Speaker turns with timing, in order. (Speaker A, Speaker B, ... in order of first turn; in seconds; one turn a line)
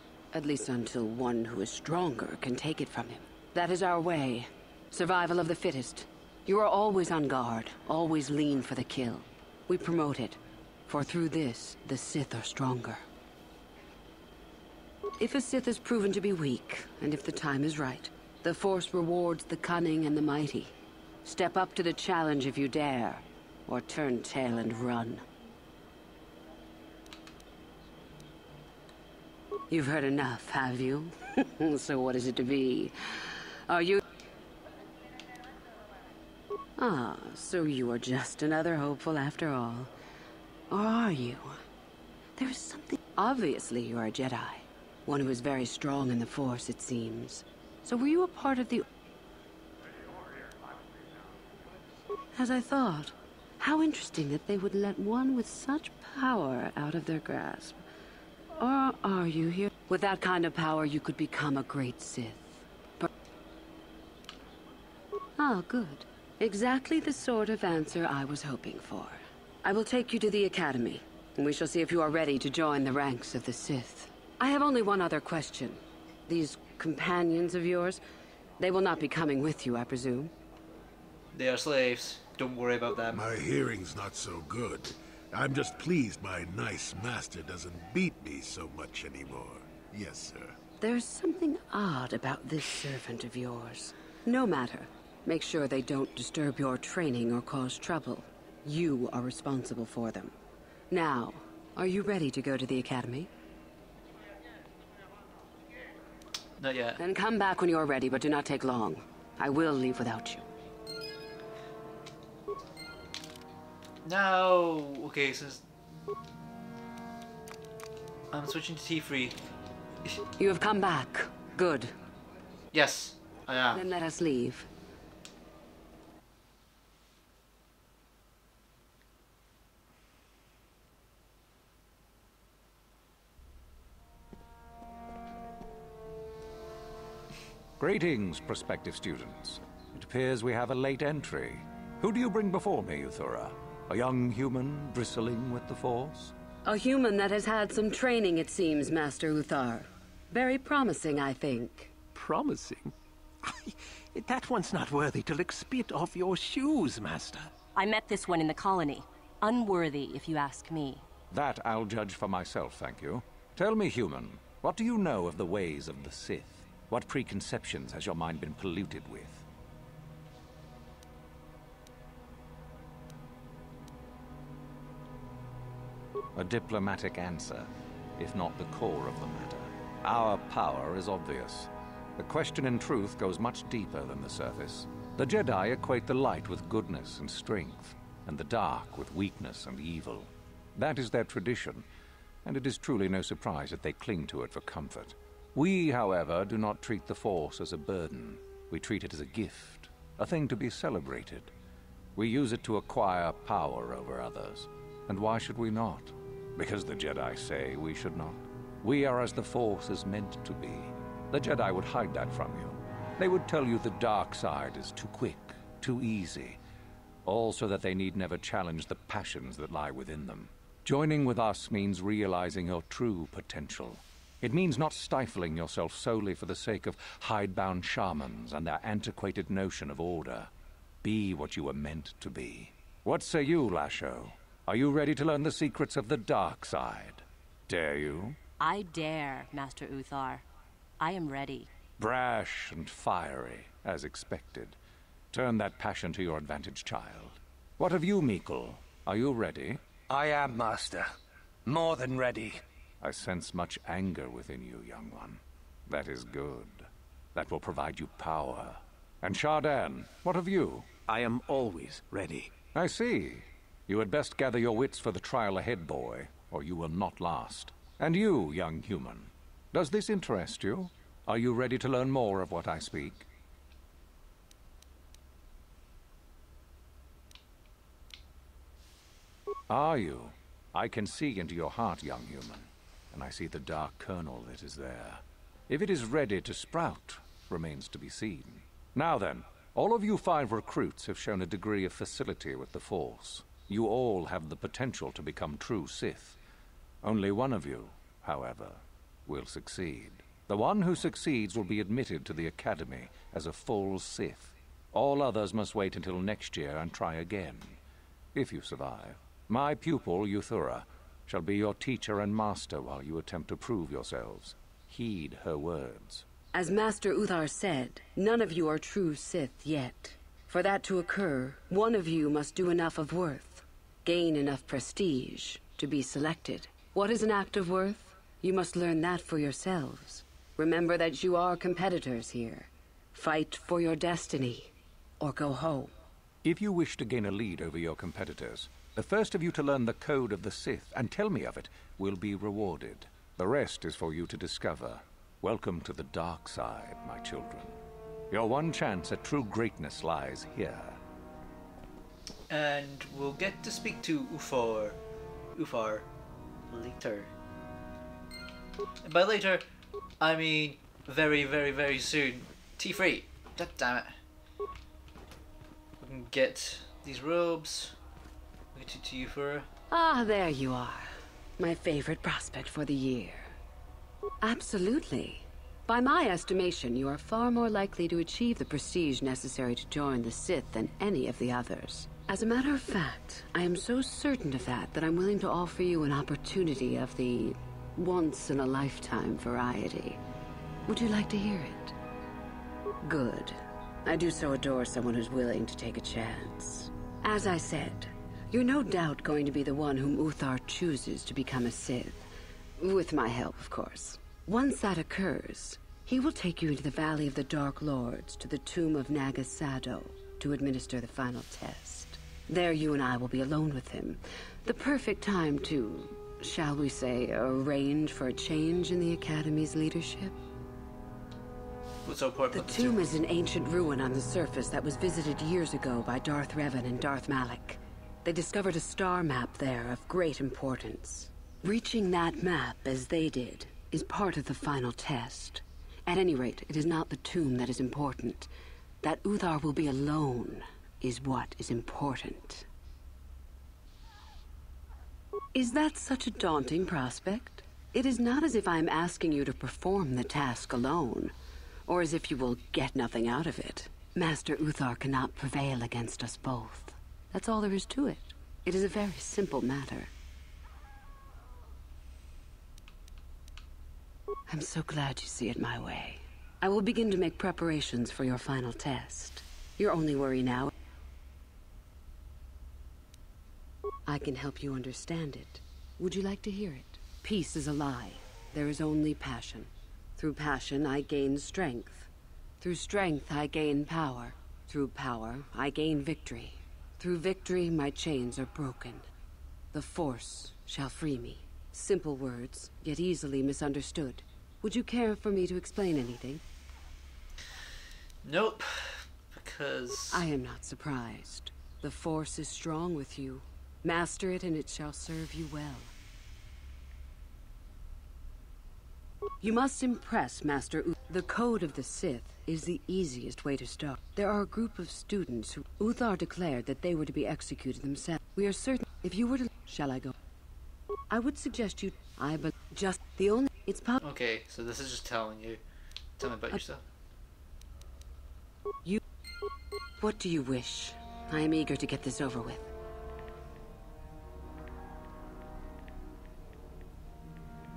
Speaker A: 0.3-13.0
Speaker A: 15.2-20.7
Speaker A: 21.2-25.2
Speaker A: 29.7-34.0
Speaker A: 36.8-39.9
Speaker A: 40.7-41.6
Speaker A: 42.4-48.9
Speaker A: 52.4-57.8
Speaker A: 58.5-63.1
Speaker A: 65.4-78.0
Speaker A: 78.6-80.3
Speaker B: 81.3-83.3
Speaker C: 83.1-90.6
Speaker A: 90.8-100.3
Speaker A: 100.9-103.3
Speaker B: 106.6-107.0
Speaker A: 107.0-110.4
Speaker B: 114.0-115.6
Speaker B: 118.3-119.4
Speaker A: 120.4-121.9
Speaker B: 122.7-123.8
Speaker A: 123.7-124.7
Speaker D: 137.8-146.3
Speaker A: 146.7-151.9
Speaker E: 152.1-152.9
Speaker E: 153.4-157.5
Speaker F: 157.7-161.0
Speaker D: 161.3-169.4
Speaker D: 176.3-191.8
Speaker D: 192.4-201.5
Speaker D: 202.2-216.6
Speaker D: 217.2-230.5
Speaker D: 231.0-238.4
Speaker F: 238.6-240.4
Speaker F: 241.0-241.7
Speaker D: 242.0-244.8
Speaker D: 245.3-249.8
Speaker G: 250.1-251.1
Speaker G: 251.7-252.6
Speaker D: 253.0-260.9
Speaker E: 261.0-262.5
Speaker D: 262.7-273.3
Speaker D: 279.7-296.4
Speaker D: 297.0-307.8
Speaker D: 308.3-316.2
Speaker A: 316.5-335.9
Speaker D: 336.4-347.8
Speaker D: 348.3-351.0
Speaker B: 352.5-355.0
Speaker B: 355.5-356.1
Speaker B: 356.7-357.3
Speaker B: 359.0-359.6
Speaker B: 360.2-364.1
Speaker B: 366.0-367.9
Speaker B: 368.7-369.7
Speaker A: 369.9-373.5
Speaker A: 374.4-390.2
Speaker A: 390.9-391.9
Speaker A: 393.0-420.4
Speaker B: 422.0-423.0
Speaker A: 422.5-438.5
Speaker A: 439.0-442.6
Speaker A: 445.5-451.3
Speaker A: 451.9-460.1
Speaker A: 464.5-470.7
Speaker A: 474.1-482.1
Speaker A: 482.6-489.1
Speaker A: 489.7-496.4
Speaker B: 498.2-500.3
Speaker A: 500.1-505.9
Speaker A: 509.4-520.1
Speaker A: 521.1-524.0
Speaker B: 524.0-525.6
Speaker B: 526.2-526.8
Speaker A: 530.0-532.7